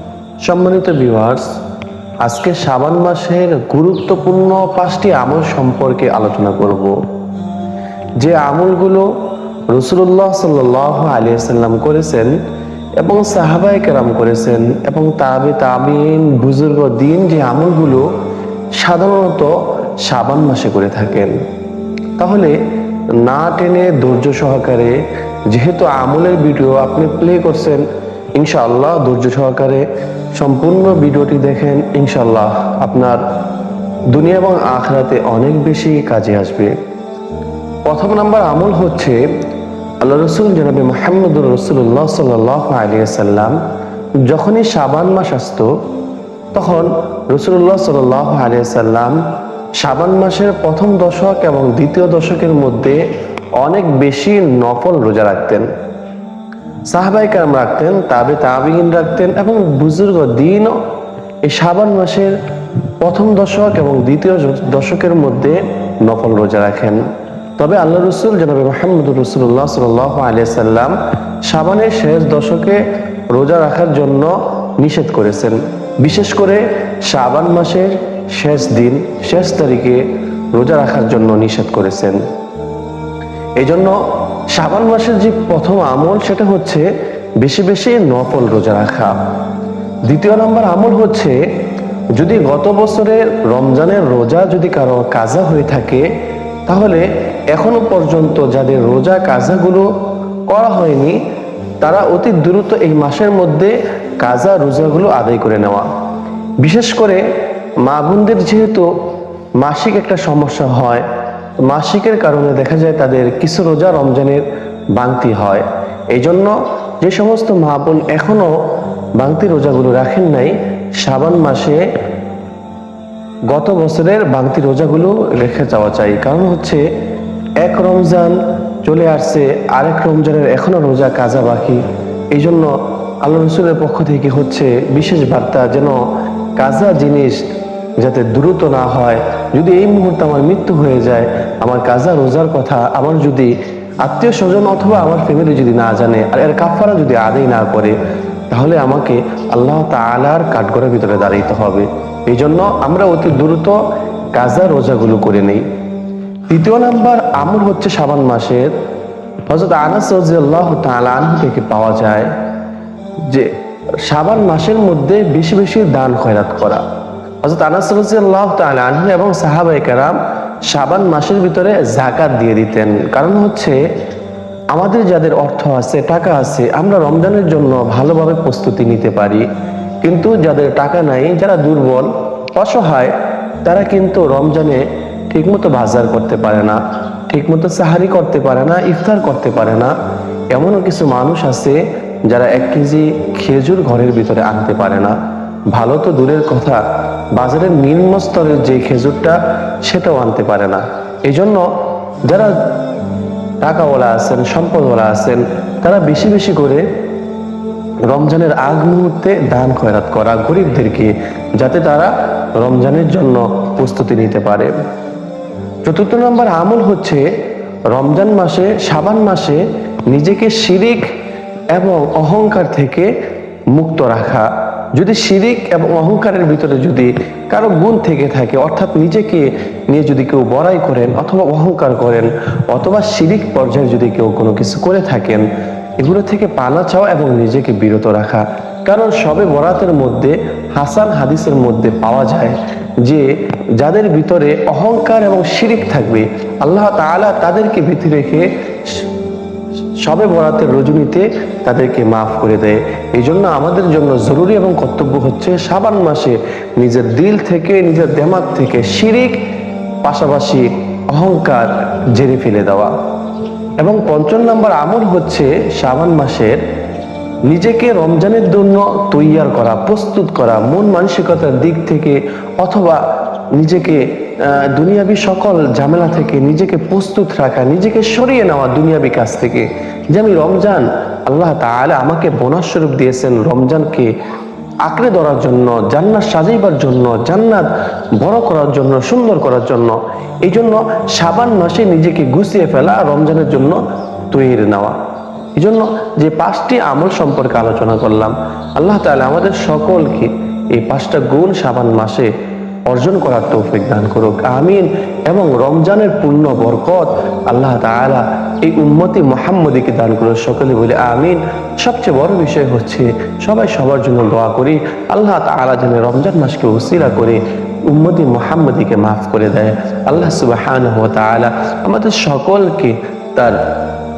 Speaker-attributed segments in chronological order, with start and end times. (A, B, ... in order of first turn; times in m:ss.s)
0:00.4-0:01.4 A
0:02.2-0:07.0 A
0:08.2-0:09.1 A
0:09.7-0:12.3 A
0:13.0-0:18.1 A
0:18.8-0:19.5 A
0:20.0-0:21.3 A
0:22.2-0:22.6 A
0:23.2-0:25.0 A
0:25.5-0:27.8 A
0:28.4-0:33.2 A
0:34.1-0:36.7 A
0:37.9-0:39.2 A
0:40.0-0:43.6 A
0:44.2-0:45.7 A
0:46.5-0:49.2 A
0:49.8-0:53.0 A
0:53.6-0:55.7 A
0:56.9-1:00.8 A
1:01.4-1:02.3 A
1:03.0-1:07.0 A
1:07.6-1:12.8 A
1:13.3-1:20.0 A
1:20.5-1:22.2 A
1:23.6-1:24.0 A
1:24.5-1:26.9 A
1:27.4-1:29.1 A
1:30.1-1:31.4 A
1:32.1-1:36.0 A
1:36.7-1:39.9 A
1:40.5-1:41.2 A
1:41.8-1:45.9 A
1:46.6-1:47.2 A
1:47.8-1:48.9 A
1:49.6-1:51.1 A
1:51.6-1:54.4 A
1:55.0-1:58.5 A
1:59.2-2:01.8 A
2:03.5-2:06.8 A
2:07.6-2:11.8 A
2:12.3-2:12.7 A
2:13.2-2:16.0 A
2:16.6-2:17.4 A
2:18.0-2:23.5 A
2:24.0-2:28.0 A
2:28.5-2:33.8 A
2:34.3-2:35.6 A
2:36.5-2:38.7 A
2:39.5-2:42.3 A
2:43.2-2:43.5 A
2:44.0-2:46.8 A
2:47.4-2:53.8 A
2:54.7-2:59.4 A
3:00.0-3:03.1 A
3:03.6-3:06.8 A
3:07.3-3:09.9 A
3:10.5-3:15.2 A
3:15.7-3:16.8 A
3:17.4-3:21.7 A
3:22.2-3:22.6 A
3:23.6-3:26.8 A
3:28.1-3:34.7 A
3:35.8-3:37.2 A
3:37.9-3:41.1 A
3:41.7-3:43.1 A
3:43.7-3:55.5 A
3:56.0-4:09.0 A
4:10.0-4:19.4 A
4:20.0-4:22.9 A
4:23.8-4:26.6 A
4:27.5-4:33.0 A
4:33.6-4:44.1 A
4:44.8-4:53.8 A
4:54.3-4:55.0 A
4:55.6-5:02.3 A
5:02.9-5:23.6 A